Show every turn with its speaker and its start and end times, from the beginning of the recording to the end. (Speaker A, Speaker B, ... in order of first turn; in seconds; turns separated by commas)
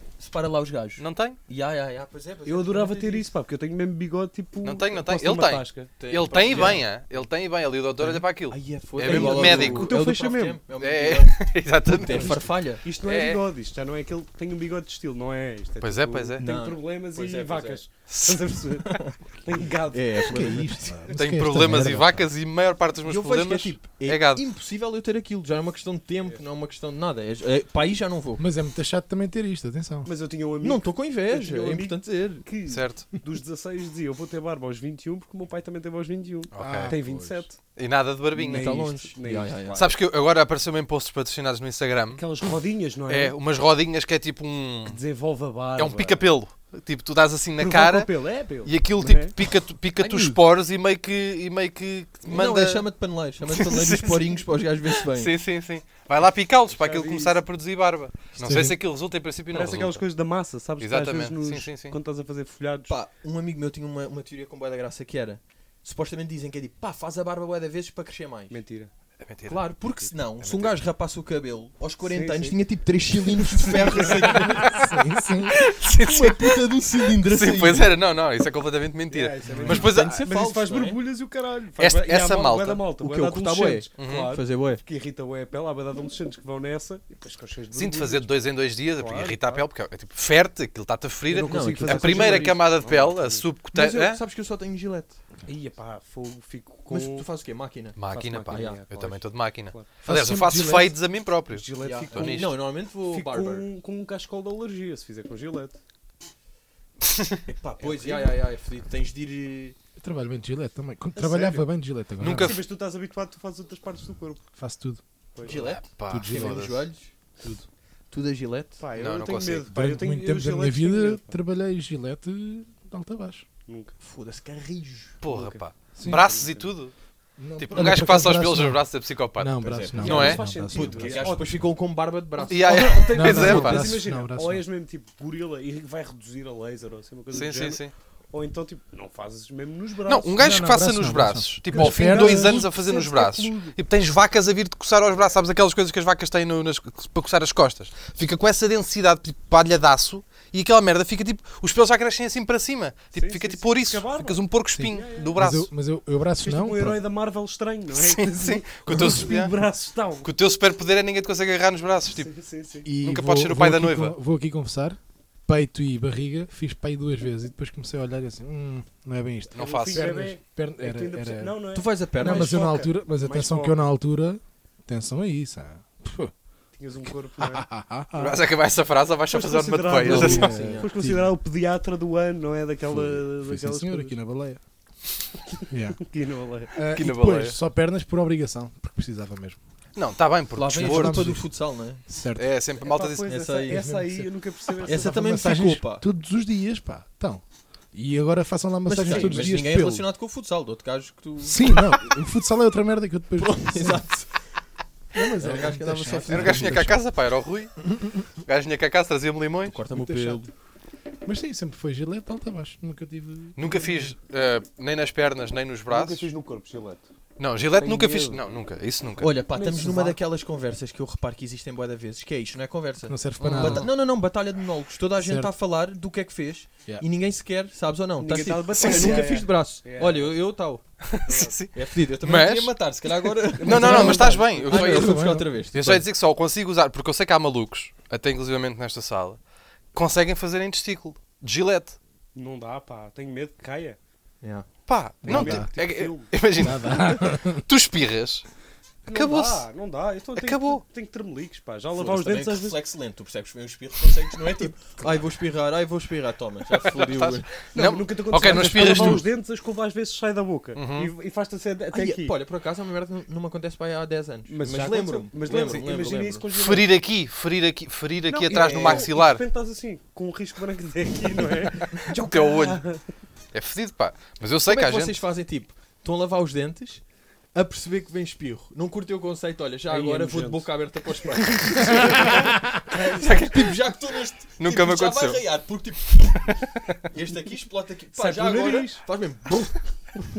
Speaker A: 0.2-3.3, Speaker B: 1.0-1.4, Speaker C: 2.5-5.9, Speaker B: 4.6-10.0, Speaker A: 6.0-6.8, Speaker A: 8.0-12.8, Speaker C: 9.0-10.6, Speaker B: 10.8-13.4, Speaker C: 12.8-20.6, Speaker B: 15.8-16.4, Speaker A: 16.4-17.8, Speaker B: 18.1-18.6, Speaker A: 18.8-19.1, Speaker A: 19.9-21.0, Speaker D: 20.3-22.3, Speaker B: 21.1-24.4, Speaker A: 23.1-28.4, Speaker D: 28.4-30.1, Speaker C: 30.1-37.6, Speaker A: 30.6-32.5, Speaker B: 32.7-33.1, Speaker B: 36.5-37.0, Speaker D: 36.6-37.5, Speaker B: 37.8-38.9, Speaker C: 38.4-40.0, Speaker A: 38.4-39.9, Speaker B: 39.7-42.2, Speaker C: 42.1-43.4, Speaker B: 43.1-45.0, Speaker C: 44.9-46.2, Speaker B: 45.8-48.1, Speaker C: 47.6-49.4, Speaker B: 48.6-52.9, Speaker C: 50.0-50.4, Speaker A: 52.3-55.3, Speaker B: 53.5-60.0, Speaker C: 56.7-57.4, Speaker D: 58.4-58.8, Speaker C: 59.5-63.0, Speaker B: 60.8-62.0, Speaker A: 62.9-68.6, Speaker C: 68.5-68.9, Speaker B: 69.2-69.7, Speaker A: 69.5-74.9, Speaker B: 70.4-70.8, Speaker C: 72.0-72.6, Speaker C: 73.7-74.1, Speaker B: 74.1-74.9, Speaker D: 74.3-75.7, Speaker B: 75.5-80.2, Speaker A: 76.0-78.0, Speaker C: 79.1-88.4, Speaker D: 79.5-79.9, Speaker A: 79.7-81.0, Speaker B: 81.8-82.8, Speaker A: 83.0-84.8, Speaker B: 84.0-84.3, Speaker B: 87.7-94.2, Speaker C: 89.0-89.6, Speaker C: 91.3-93.5, Speaker A: 91.4-92.9, Speaker A: 93.7-95.2, Speaker C: 95.5-97.3, Speaker A: 96.9-98.8, Speaker B: 98.0-102.6, Speaker C: 98.1-99.9, Speaker D: 100.0-101.0, Speaker C: 101.5-105.8, Speaker A: 101.8-103.7, Speaker B: 107.1-107.4, Speaker A: 107.5-109.8, Speaker C: 107.8-108.4, Speaker D: 110.0-112.6, Speaker C: 111.2-111.7, Speaker B: 112.2-112.6, Speaker C: 112.3-114.5, Speaker D: 114.6-115.0, Speaker C: 115.3-115.6, Speaker A: 115.4-117.1, Speaker B: 115.5-116.9, Speaker D: 116.1-116.7, Speaker A: 118.1-118.8, Speaker C: 118.8-121.2, Speaker B: 119.0-119.7, Speaker D: 119.7-123.5, Speaker C: 123.7-124.0, Speaker A: 124.0-125.2, Speaker B: 125.2-126.9, Speaker C: 125.2-126.7, Speaker D: 126.0-126.2, Speaker D: 127.4-131.4, Speaker B: 127.6-130.4, Speaker A: 129.6-133.7, Speaker C: 130.0-131.6, Speaker C: 132.4-140.4, Speaker B: 132.5-133.9, Speaker D: 133.1-134.6, Speaker B: 137.3-137.9, Speaker B: 140.1-155.7, Speaker D: 140.4-142.7, Speaker C: 141.7-143.8, Speaker C: 153.2-155.4, Speaker D: 154.8-157.0, Speaker C: 156.4-160.3, Speaker B: 157.9-159.6, Speaker D: 158.9-159.3, Speaker B: 160.2-162.3, Speaker C: 162.1-162.9, Speaker D: 162.8-171.6, Speaker B: 163.0-164.2, Speaker B: 169.6-170.1, Speaker C: 169.6-173.8, Speaker A: 171.7-172.7, Speaker D: 172.2-176.3, Speaker C: 176.8-177.7, Speaker D: 177.4-178.4, Speaker B: 178.2-180.6, Speaker C: 179.3-184.2, Speaker D: 180.0-181.3, Speaker A: 180.1-180.9, Speaker D: 182.9-184.6, Speaker C: 185.6-186.7, Speaker D: 185.7-186.0, Speaker D: 186.7-189.6, Speaker B: 186.9-187.6, Speaker B: 190.0-191.4, Speaker A: 190.6-192.0, Speaker D: 190.7-191.5, Speaker D: 192.1-192.5, Speaker B: 192.4-193.3, Speaker C: 192.8-195.2, Speaker A: 193.3-193.8, Speaker D: 193.7-197.4, Speaker A: 194.8-196.1, Speaker D: 197.9-200.1, Speaker A: 198.9-201.9, Speaker C: 199.1-199.5, Speaker D: 201.4-204.1, Speaker A: 203.4-204.3, Speaker D: 205.1-207.0, Speaker A: 205.2-207.0, Speaker B: 206.3-209.8, Speaker A: 209.7-210.5, Speaker D: 209.9-210.5, Speaker D: 211.2-214.0, Speaker B: 213.6-216.3, Speaker C: 215.9-217.1, Speaker B: 217.4-219.4, Speaker C: 217.7-218.4, Speaker A: 219.2-230.8, Speaker C: 219.5-220.2, Speaker D: 223.1-223.9, Speaker B: 223.5-223.8, Speaker D: 225.2-225.5, Speaker C: 228.2-230.3, Speaker B: 228.8-229.3, Speaker B: 231.1-235.2, Speaker C: 231.3-231.6, Speaker A: 231.7-236.0, Speaker C: 233.6-235.0, Speaker D: 233.8-235.7, Speaker B: 235.7-239.4, Speaker B: 239.9-242.0, Speaker C: 242.3-244.0, Speaker A: 244.4-244.7, Speaker B: 244.9-248.5, Speaker D: 245.2-245.7, Speaker C: 245.3-246.3, Speaker D: 246.6-247.7, Speaker C: 249.1-252.8, Speaker B: 249.1-249.7, Speaker B: 250.3-250.8, Speaker A: 251.9-257.5, Speaker B: 256.7-259.3, Speaker C: 257.7-262.4, Speaker D: 258.5-259.2, Speaker B: 260.8-261.1, Speaker A: 261.9-266.5, Speaker C: 264.5-266.9, Speaker B: 266.5-269.4, Speaker C: 268.3-273.0, Speaker A: 268.5-269.1, Speaker B: 271.9-272.8, Speaker B: 273.5-275.2, Speaker A: 274.7-286.6, Speaker C: 279.9-280.7, Speaker C: 281.2-283.3, Speaker D: 282.3-282.7, Speaker B: 283.1-283.8, Speaker B: 284.6-285.4, Speaker B: 286.2-287.0, Speaker A: 287.1-290.3, Speaker C: 288.1-289.0